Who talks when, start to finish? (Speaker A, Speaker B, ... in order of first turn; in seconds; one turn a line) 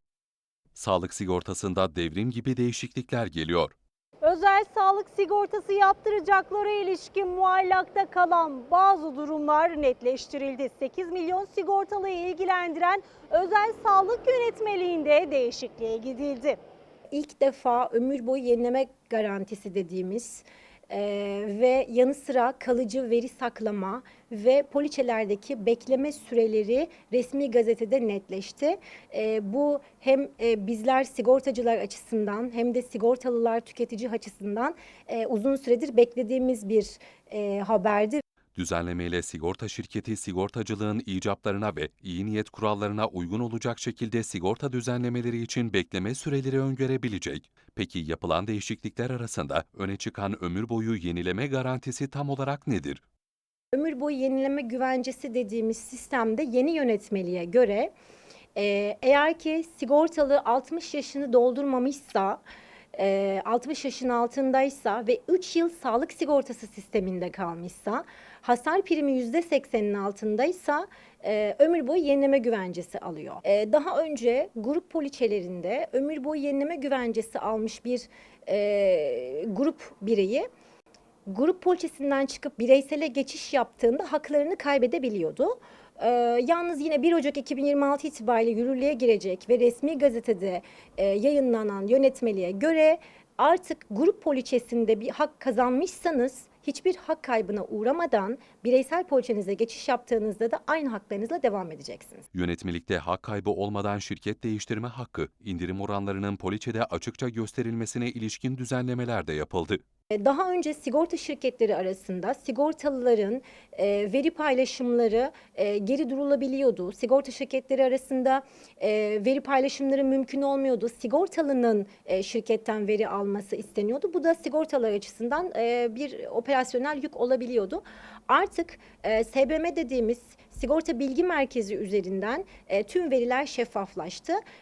Speaker A: 0.8-3.7
Speaker B: 4.2-16.6
Speaker C: 17.1-38.2
Speaker A: 38.5-53.0
Speaker C: 53.7-57.9
Speaker C: 58.5-62.4
Speaker C: 62.9-80.5
Speaker C: 81.3-102.2
Speaker A: 102.3-109.8
Speaker C: 110.2-134.4